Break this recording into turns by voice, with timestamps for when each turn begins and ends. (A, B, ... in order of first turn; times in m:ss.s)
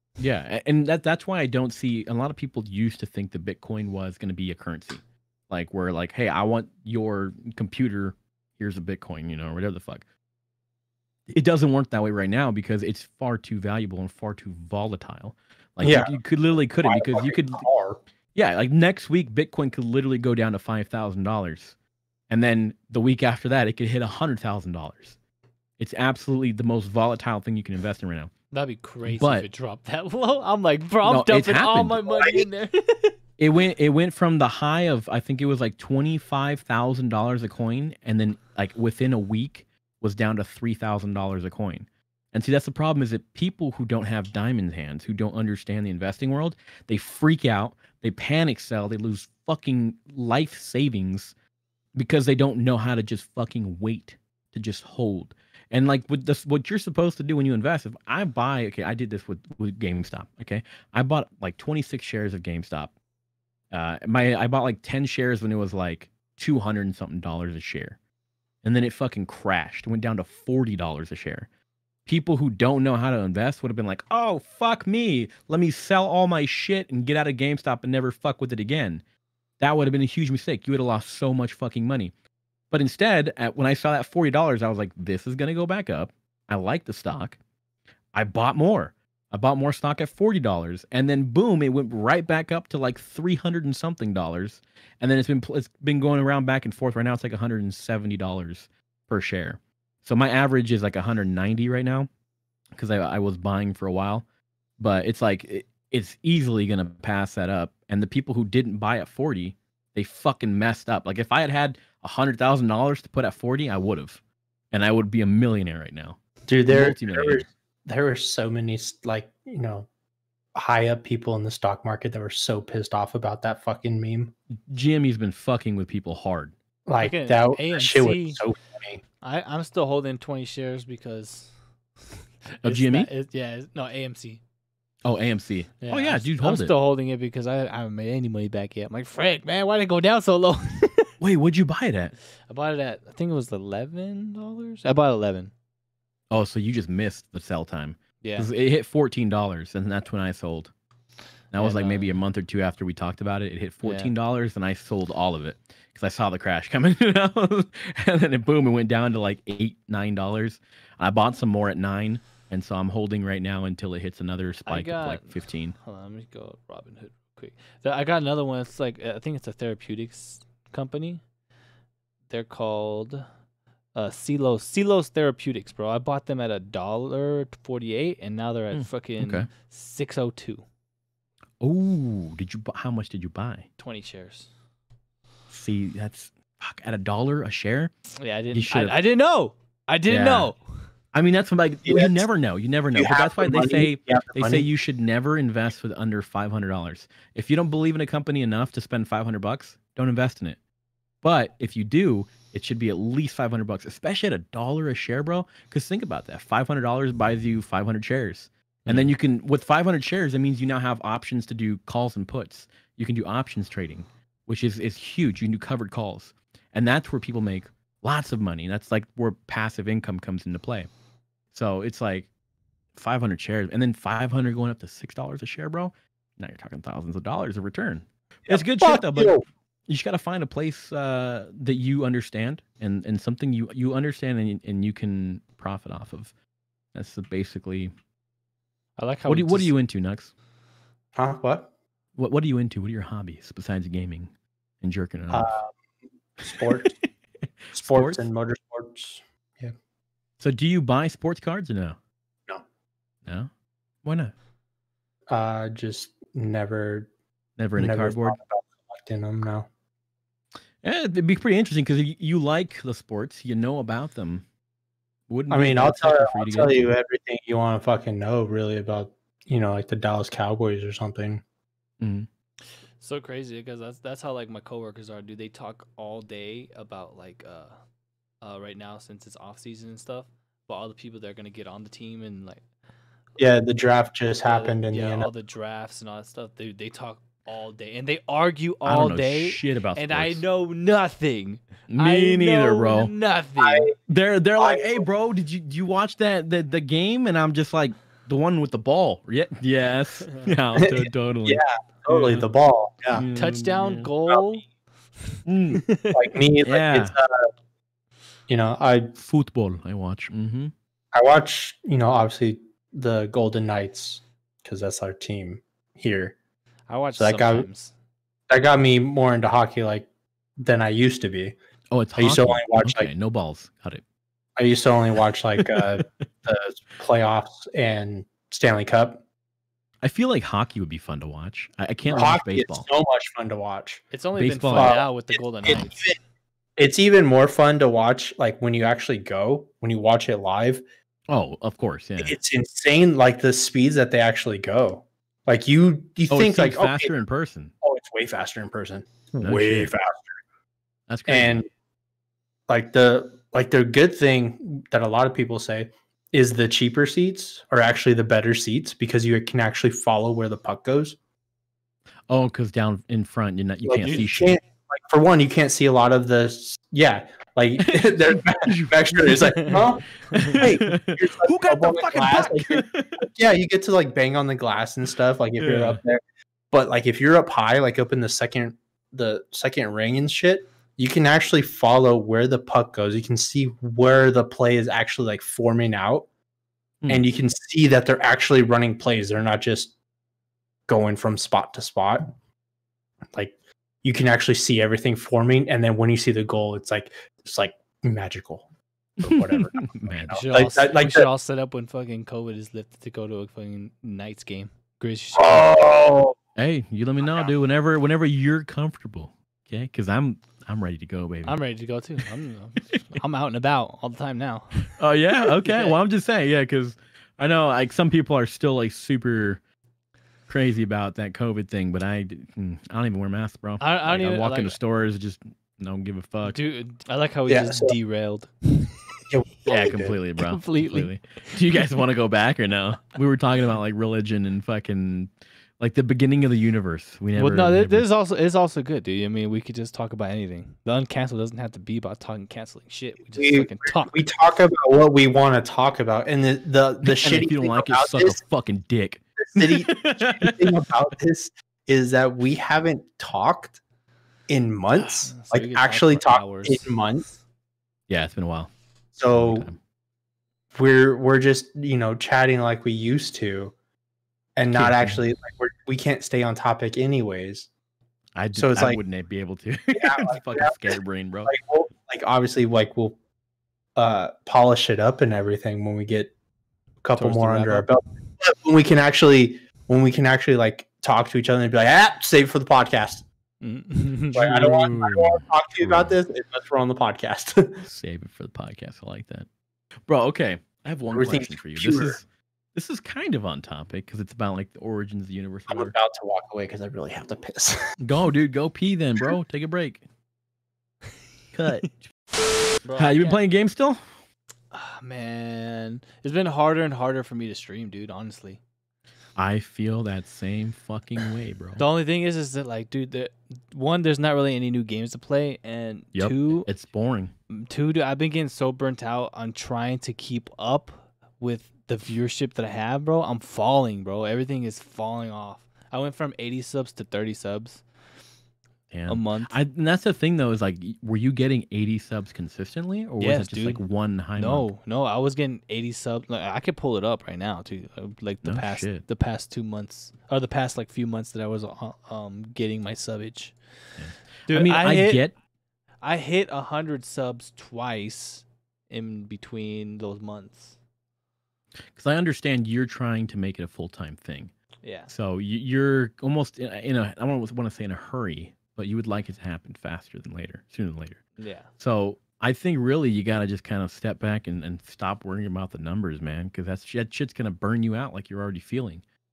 0:00.2-0:10.0 A
0:11.3-0:17.6 A
0:15.8-0:16.1 B
0:16.8-0:18.0 B
0:18.4-0:21.8 A
0:22.3-0:25.2 A
0:25.8-0:28.3 A
0:28.5-0:33.2 C
0:29.0-0:29.5 A
0:31.0-0:32.2 A
0:33.4-0:51.3 A
0:52.0-1:02.9 A
1:03.7-1:08.0 A
1:08.6-1:11.5 A
1:12.1-1:19.0 A
1:19.6-1:22.1 A
1:22.7-1:27.4 A
1:28.1-1:42.1 A
1:42.8-1:44.2 A
1:44.8-1:54.2 A
1:54.7-1:57.4 A
1:56.5-1:59.9 B
2:00.6-2:04.3 B
2:04.7-2:06.5 A
2:06.9-2:09.0 B
2:07.0-2:08.4 C
2:09.2-2:11.5 C
2:12.6-2:13.1 A
2:12.6-2:14.4 C
2:15.0-2:16.7 A
2:15.8-2:21.1 C
2:21.2-2:22.2 A
2:22.5-2:25.5 C
2:26.3-2:30.7 A
2:28.2-2:28.5 C
2:31.5-2:45.8 A
2:31.6-2:32.1 C
2:33.8-2:34.1 C
2:44.7-2:51.2 C
2:52.3-2:53.3 C
2:54.0-3:00.6 C
2:58.7-2:59.5 A
3:01.6-3:03.7 A
3:03.8-3:04.5 C
3:05.5-3:07.9 A
3:08.2-3:10.6 C
3:08.5-3:09.0 A
3:10.1-3:10.5 A
3:11.1-3:20.6 A
3:11.8-3:12.3 B
3:13.0-3:14.7 B
3:21.2-3:40.9 A
3:41.5-3:42.3 A
3:43.0-3:56.3 A
3:48.5-3:49.4 B
3:56.9-3:57.9 A
3:59.0-3:59.7 C
3:59.3-4:00.3 A
4:01.2-4:01.7 B
4:02.2-4:05.5 A
4:05.3-4:05.7 B
4:06.4-4:06.9 B
4:07.7-4:08.2 A
4:07.8-4:09.8 B
4:10.4-4:12.0 A
4:14.0-4:14.3 A
4:15.3-4:17.1 B
4:17.6-4:18.4 A
4:17.8-4:19.7 B
4:20.8-4:24.4 A
4:25.3-4:26.8 A
4:25.5-4:31.4 B
4:32.0-4:32.3 A
4:33.0-4:37.8 C
4:38.4-4:42.6 C
4:43.4-4:45.3 B
4:44.4-4:53.9 C
4:48.8-4:50.4 A
4:51.9-4:53.1 A
4:53.6-4:54.0 B
4:54.1-5:02.5 A
4:54.6-4:55.1 B
5:00.8-5:03.2 B
5:03.1-5:04.1 A
5:03.4-5:04.7 C
5:05.5-5:05.9 A
5:05.8-5:06.2 C
5:06.1-5:07.5 B
5:06.6-5:07.2 A
5:08.5-5:09.2 B
5:09.2-5:10.7 A
5:11.1-5:16.4 B
5:16.9-5:17.9 C
5:17.2-5:17.7 B
5:18.5-5:20.1 B
5:20.6-5:21.6 B
5:21.9-5:24.0 A
5:22.2-5:23.1 B
5:24.6-5:29.2 B
5:30.0-5:32.9 A
5:32.1-5:34.0 B
5:34.1-5:36.0 C
5:34.4-5:35.1 A
5:34.8-5:35.1 B
5:35.6-5:36.2 B
5:35.7-5:35.9 A
5:36.8-5:40.8 B
5:41.3-5:42.4 A
5:42.2-5:47.1 B
5:46.3-5:47.7 A
5:47.8-5:50.3 B
5:49.4-5:49.9 A
5:51.1-5:51.6 A
5:51.3-5:51.7 B
5:52.7-6:01.2 B
6:02.3-6:04.6 A
6:03.8-6:26.3 B
6:07.8-6:09.8 A
6:10.3-6:10.6 C
6:10.3-6:13.3 A
6:15.6-6:16.0 A
6:27.1-6:29.9 B
6:30.9-6:32.3 B
6:33.3-6:38.7 B
6:39.2-6:41.3 B
6:39.2-6:40.5 A
6:40.3-6:45.7 C
6:45.4-6:46.4 B
6:46.6-6:51.6 A
6:51.4-6:54.9 C
6:55.0-6:59.6 A
6:55.6-6:56.0 C
7:00.5-7:06.6 A
7:03.8-7:04.8 C
7:06.5-7:09.0 C
7:07.5-7:08.0 B
7:09.3-7:10.2 B
7:09.7-7:18.1 A
7:10.4-7:11.8 C
7:17.4-7:24.2 C
7:23.4-7:28.4 B
7:27.0-7:30.9 A
7:29.4-7:33.8 B
7:34.5-7:37.3 B
7:35.0-7:37.0 C
7:38.1-7:38.7 A
7:39.2-7:39.7 B
7:39.3-7:39.8 A
7:40.7-7:43.7 B
7:44.6-7:47.7 B
7:44.7-7:45.2 A
7:48.4-7:51.6 A
7:48.5-7:49.0 B
7:49.9-7:51.0 B
7:51.5-7:53.2 B
7:54.0-7:56.3 B
7:57.0-8:03.2 B
7:57.2-7:57.9 C
8:03.6-8:04.5 C
8:04.3-8:07.8 B
8:04.4-8:06.2 A
8:07.8-8:09.5 A
8:10.1-8:16.0 A
8:11.1-8:12.2 B
8:15.7-8:17.9 B
8:18.0-8:20.0 A
8:21.5-8:22.0 A
8:22.8-8:23.4 C
8:22.9-8:24.0 A
8:24.7-8:28.6 C
8:29.4-8:31.8 A
8:31.8-8:36.7 C
8:36.1-8:37.3 A
8:37.5-8:47.8 C
8:48.9-8:54.7 A
8:49.1-8:49.6 C
8:53.2-8:53.8 C
8:54.4-9:03.6 C
8:58.4-8:59.0 A
9:04.0-9:05.3 A
9:04.5-9:05.3 C
9:06.0-9:10.8 C
9:12.0-9:14.5 A
9:14.8-9:15.1 C
9:15.1-9:21.2 A
9:21.4-9:21.7 C
9:21.8-9:29.0 A